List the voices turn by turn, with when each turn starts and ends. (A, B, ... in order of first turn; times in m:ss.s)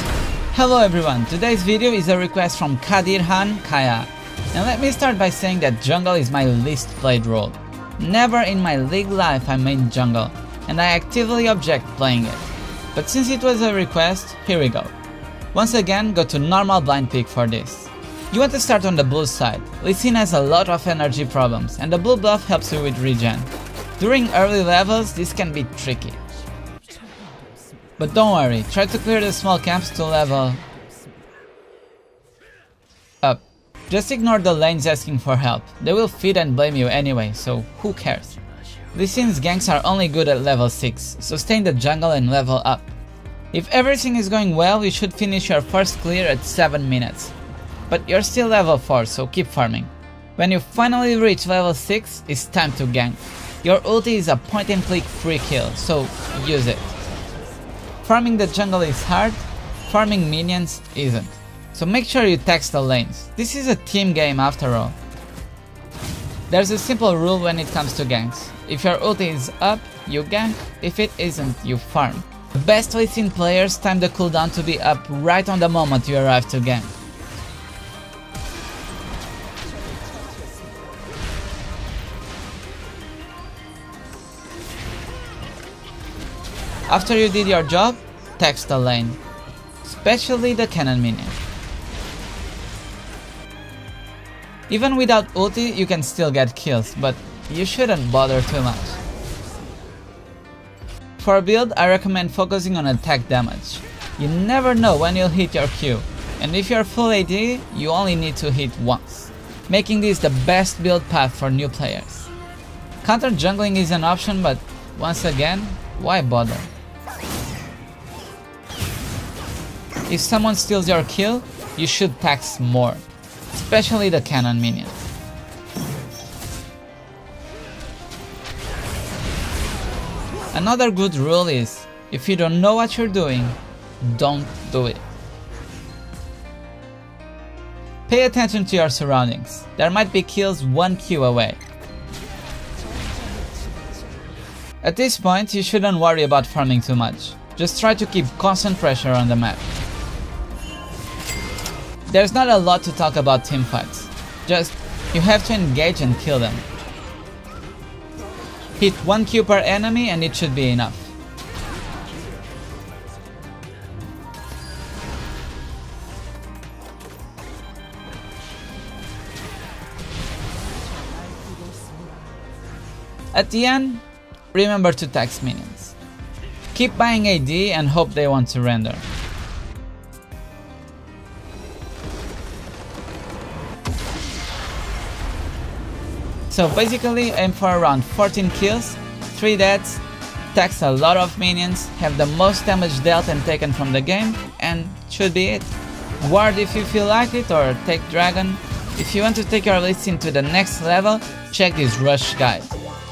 0:00.5-0:14.9 A
0:15.5-0:26.2 A
0:28.0-0:30.6 A
0:33.2-0:38.4 A
0:38.9-0:42.9 A
0:43.5-0:47.3 A
0:47.9-0:56.9 A
0:58.0-1:05.0 A
1:06.5-1:16.9 A
1:26.9-1:29.2 A
1:29.8-1:31.4 A
1:34.7-1:39.0 A
1:41.2-1:52.3 A
1:53.0-1:56.7 A
2:00.1-2:05.0 A
2:10.5-2:15.0 A
2:18.1-2:21.6 A
2:24.8-2:29.7 A
2:32.1-2:36.6 A
2:38.8-2:41.1 A
2:53.3-2:56.0 A
2:56.7-2:59.0 A
3:06.5-3:22.8 A